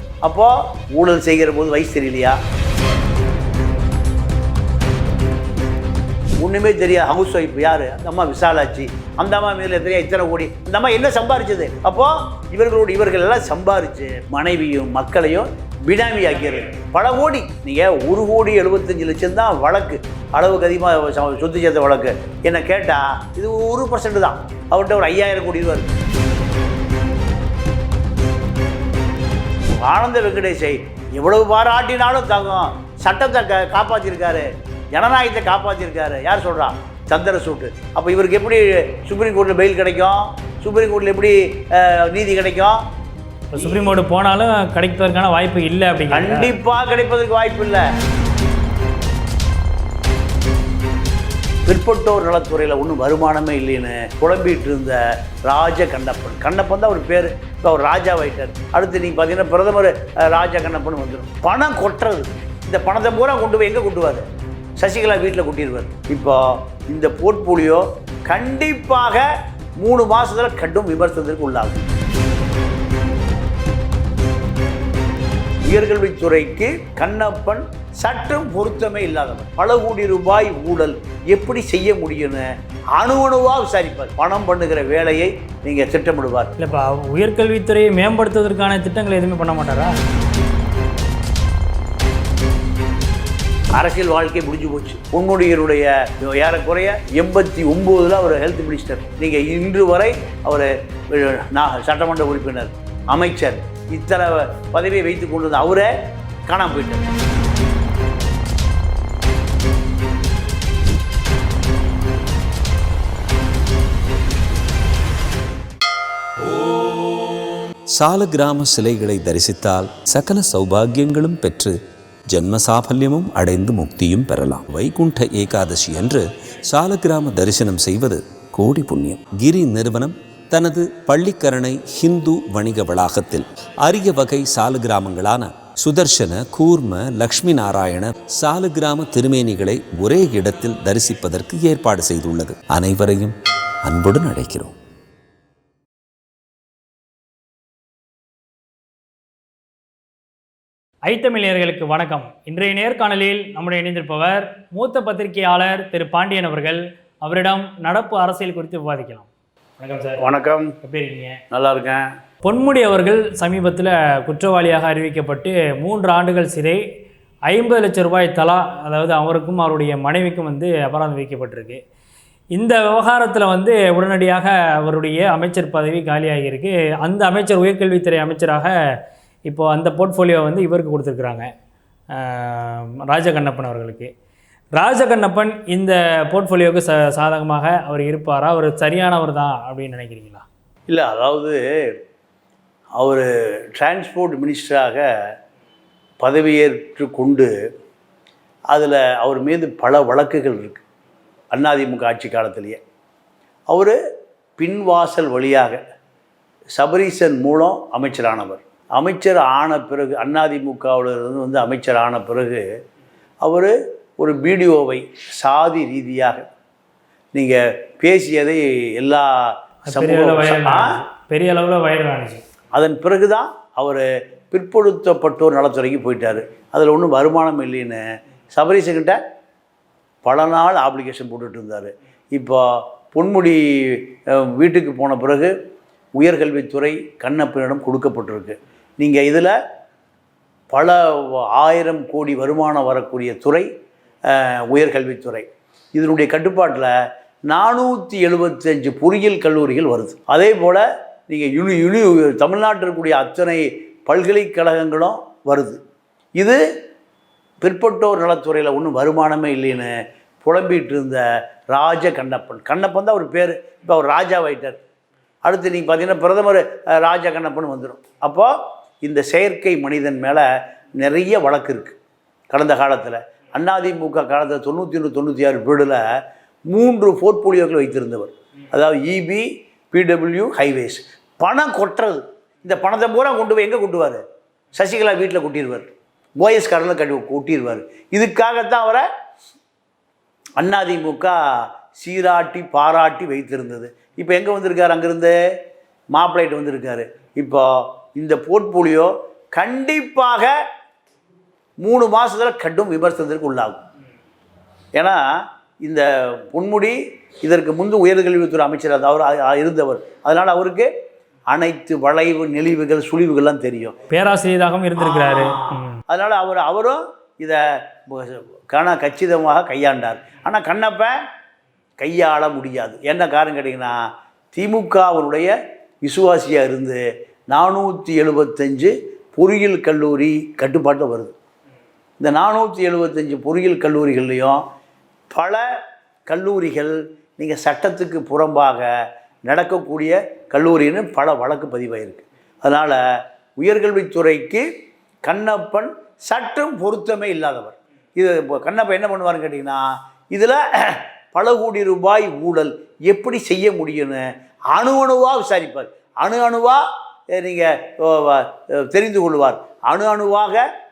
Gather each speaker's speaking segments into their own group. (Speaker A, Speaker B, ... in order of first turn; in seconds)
Speaker A: 0.2-2.4, 6.4-25.9, 29.7-42.8, 43.6-43.9, 46.1-47.9, 51.7-64.3, 64.8-71.9, 75.7-86.6, 93.7-105.9, 106.5-107.1, 160.2-160.8, 161.5-162.1, 190.9-191.9, 193.0-195.1, 196.2-197.5, 198.7-200.8, 201.5-202.8, 203.7-204.0, 204.6-205.8, 206.7-212.7, 213.4-216.5, 217.3-220.9, 222.7-229.2, 230.2-235.5, 236.2-239.6, 240.7-243.7, 244.3-246.9, 247.5-255.8, 257.6-264.8, 265.4-270.5, 271.0-272.0, 272.5-276.0, 276.7-284.2, 284.8-285.9, 286.4-289.1, 290.6-295.4, 296.1-300.5, 301.8-303.8, 305.0-310.9, 311.5-314.0, 315.0-321.2, 322.0-325.5, 326.0-331.4, 332.2-334.6, 335.3-335.6, 336.3-338.9, 339.5-344.7, 345.2-360.7
Speaker B: 43.5-46.5, 86.6-90.0, 151.1-159.3, 159.8-160.2, 160.8-161.4, 162.4-166.8, 167.5-171.8, 172.5-178.8, 179.5-181.5, 182.1-184.1, 184.8-190.4, 219.9-222.4, 314.1-316.0
Speaker C: 117.9-121.8, 122.3-144.8